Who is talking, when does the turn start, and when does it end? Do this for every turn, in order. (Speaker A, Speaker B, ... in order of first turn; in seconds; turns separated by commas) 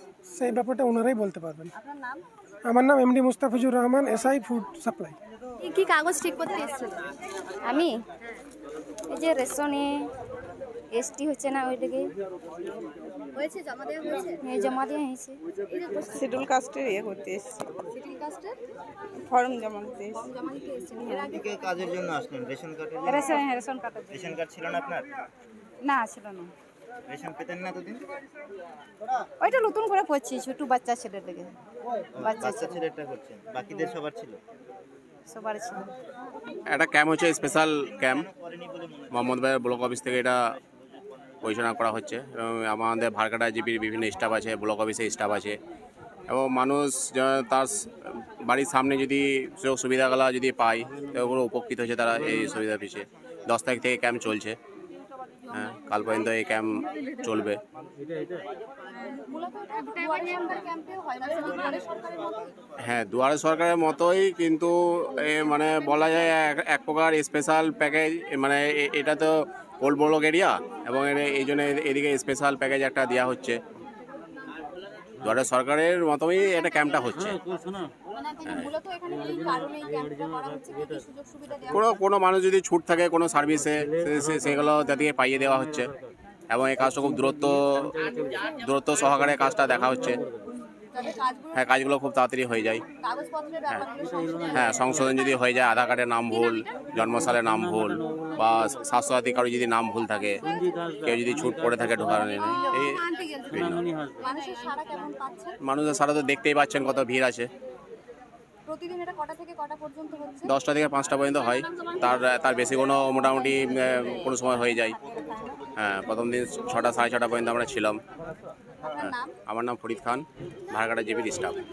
Speaker A: 0.3-1.7, Speaker A: 2.7-5.2, Speaker B: 5.7-7.0, Speaker C: 5.7-6.1, Speaker C: 7.6-8.0, Speaker C: 9.1-9.9, Speaker C: 10.9-12.1, Speaker B: 13.4-14.4, Speaker C: 14.4-15.4, Speaker D: 16.0-17.7, Speaker B: 17.9-18.6, Speaker D: 19.3-20.3, Speaker B: 20.4-21.4, Speaker D: 21.0-21.3, Speaker E: 21.2-23.5, Speaker C: 23.1-24.3, Speaker E: 24.1-25.1, Speaker C: 25.9-26.5, Speaker E: 27.1-28.0, Speaker C: 29.4-31.5, Speaker E: 32.1-34.4, Speaker C: 32.2-32.8, Speaker C: 35.3-35.9, Speaker F: 36.7-38.3, Speaker E: 37.9-41.6, Speaker F: 39.1-40.4, Speaker F: 41.4-45.6, Speaker F: 46.3-47.7, Speaker F: 48.5-54.6, Speaker F: 55.5-57.6, Speaker B: 59.0-61.9, Speaker E: 61.2-62.6, Speaker F: 62.9-73.6, Speaker F: 75.2-77.4, Speaker B: 78.4-81.8, Speaker F: 78.5-78.7, Speaker F: 81.7-85.9, Speaker F: 86.5-90.2, Speaker B: 90.9-91.7, Speaker F: 91.5-92.8, Speaker B: 93.0-95.3, Speaker F: 94.5-100.4, Speaker B: 100.5-100.8, Speaker F: 101.0-103.8, Speaker B: 102.5-103.6, Speaker B: 104.2-105.6, Speaker F: 105.6-107.5, Speaker B: 108.7-110.5, Speaker F: 110.5-115.0, Speaker E: 115.1-115.6, Speaker F: 115.8-118.0, Speaker F: 119.0-121.6, Speaker B: 119.1-119.3